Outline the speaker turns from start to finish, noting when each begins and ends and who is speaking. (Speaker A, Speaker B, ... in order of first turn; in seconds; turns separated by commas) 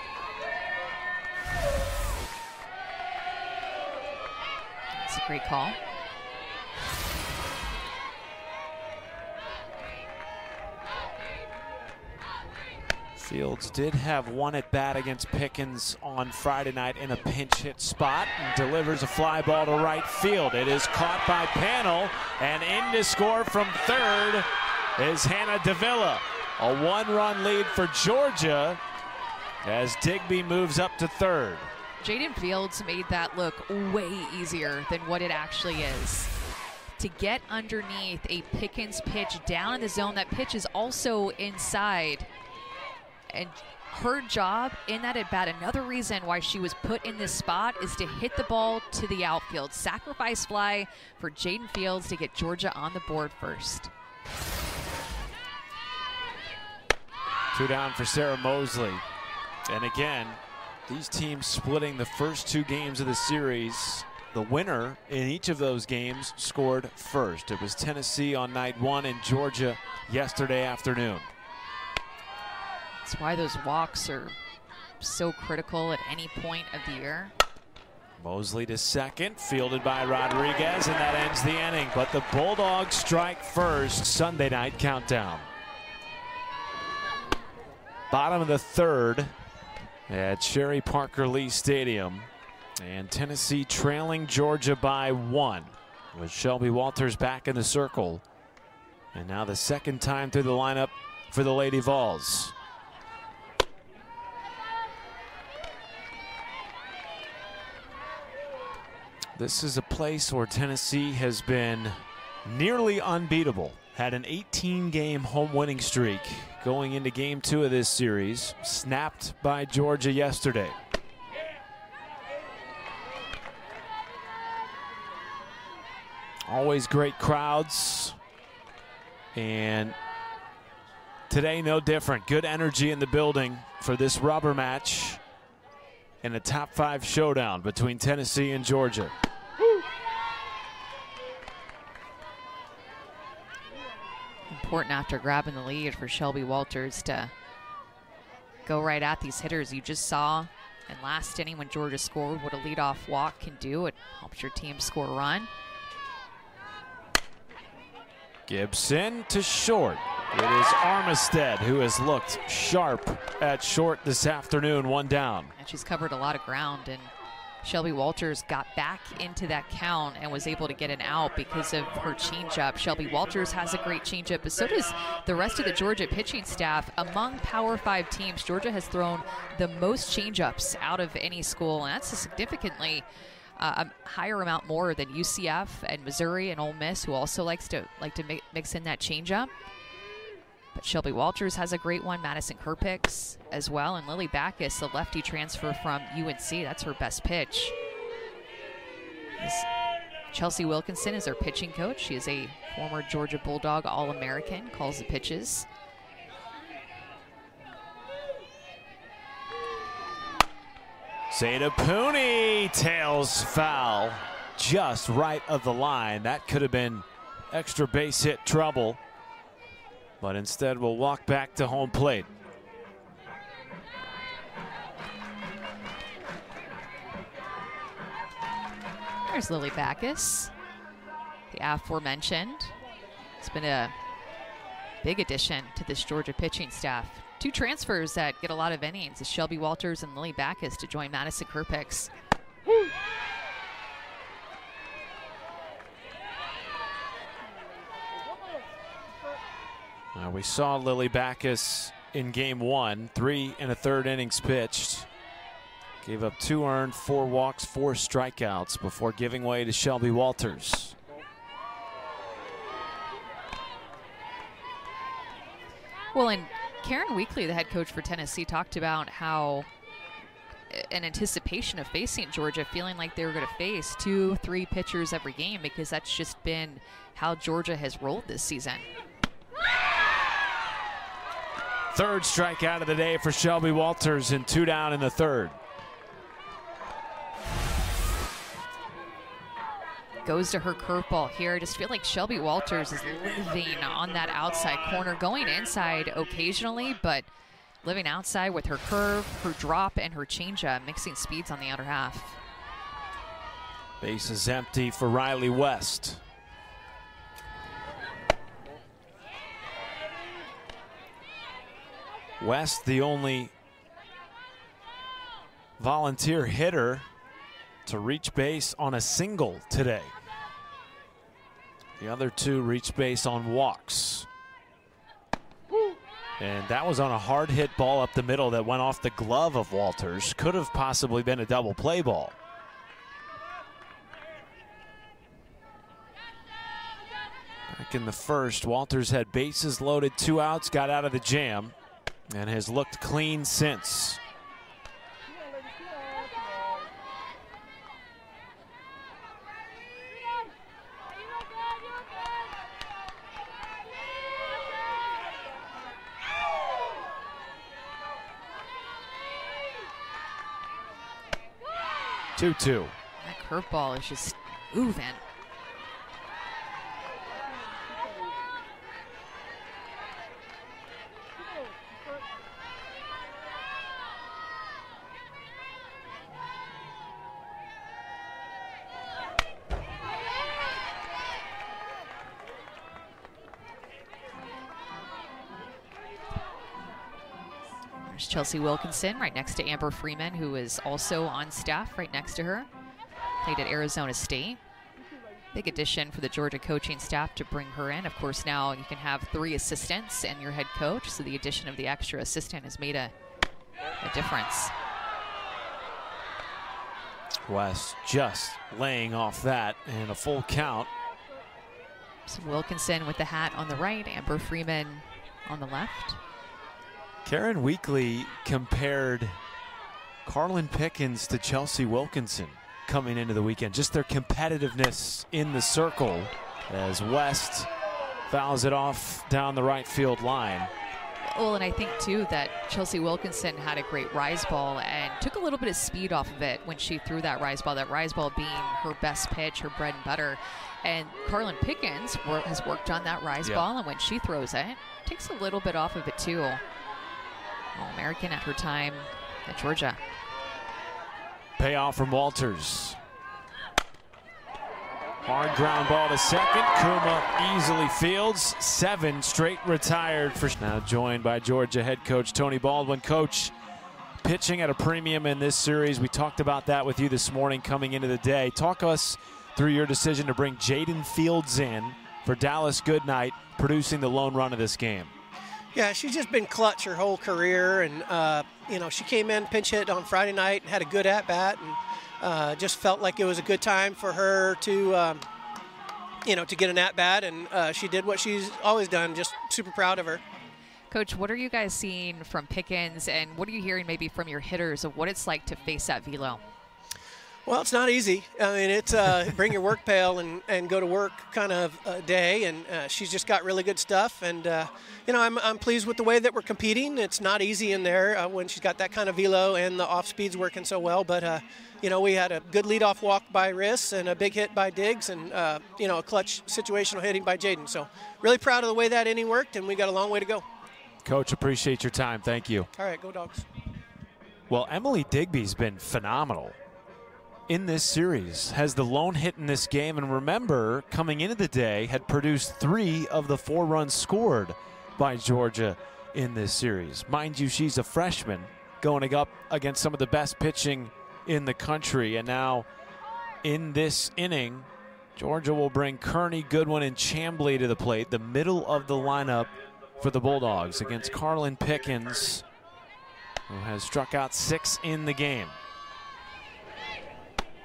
Speaker A: 4.9-5.8, Speaker B: 13.2-28.8, Speaker B: 29.6-31.7, Speaker A: 32.0-36.3, Speaker A: 37.0-42.3, Speaker A: 43.3-53.9, Speaker B: 57.5-59.0, Speaker B: 59.7-71.3, Speaker A: 73.0-74.3, Speaker A: 75.0-77.3, Speaker B: 78.2-85.5, Speaker B: 88.1-89.3, Speaker B: 90.1-98.2, Speaker B: 99.1-102.5, Speaker B: 109.3-120.8, Speaker B: 126.5-128.2, Speaker B: 129.3-129.9, Speaker B: 131.3-135.2, Speaker B: 136.2-139.1, Speaker A: 144.5-147.3, Speaker A: 148.7-155.5, Speaker B: 158.5-165.5, Speaker A: 165.6-167.1, Speaker A: 167.6-183.1, Speaker A: 183.6-189.5, Speaker A: 190.7-197.7, Speaker A: 199.4-199.7, Speaker A: 200.3-205.7, Speaker B: 211.3-219.0, Speaker B: 220.2-222.3, Speaker A: 229.3-230.5, Speaker A: 231.5-232.7, Speaker A: 233.4-233.9, Speaker A: 235.0-242.1, Speaker B: 250.1-255.1, Speaker B: 256.0-260.9, Speaker A: 266.1-269.7, Speaker A: 270.7-278.9, Speaker B: 281.9-285.6, Speaker A: 290.2-297.3, Speaker A: 297.8-302.4, Speaker B: 304.0-306.2, Speaker B: 312.4-313.5, Speaker B: 315.8-317.1, Speaker B: 317.9-320.1, Speaker B: 322.0-324.3, Speaker B: 326.4-332.3, Speaker B: 337.7-341.7, Speaker B: 342.3-344.2, Speaker B: 362.4-362.9, Speaker A: 363.2-365.2, Speaker A: 388.0-392.7, Speaker A: 393.4-394.6, Speaker A: 395.5-403.1, Speaker A: 404.0-404.7, Speaker B: 407.4-410.9, Speaker A: 412.3-416.2, Speaker B: 417.2-419.4, Speaker B: 420.2-427.7, Speaker B: 428.3-430.7, Speaker A: 431.2-446.6, Speaker A: 447.7-450.0, Speaker B: 451.6-453.0, Speaker B: 455.2-463.5, Speaker B: 464.2-475.1, Speaker C: 475.7-485.2, Speaker C: 486.2-490.2, Speaker A: 490.9-496.4, Speaker C: 497.4-520.4, Speaker B: 521.0-522.7, Speaker C: 522.8-523.5, Speaker B: 524.5-526.5, Speaker B: 527.5-542.7, Speaker B: 543.4-552.4, Speaker B: 553.5-555.6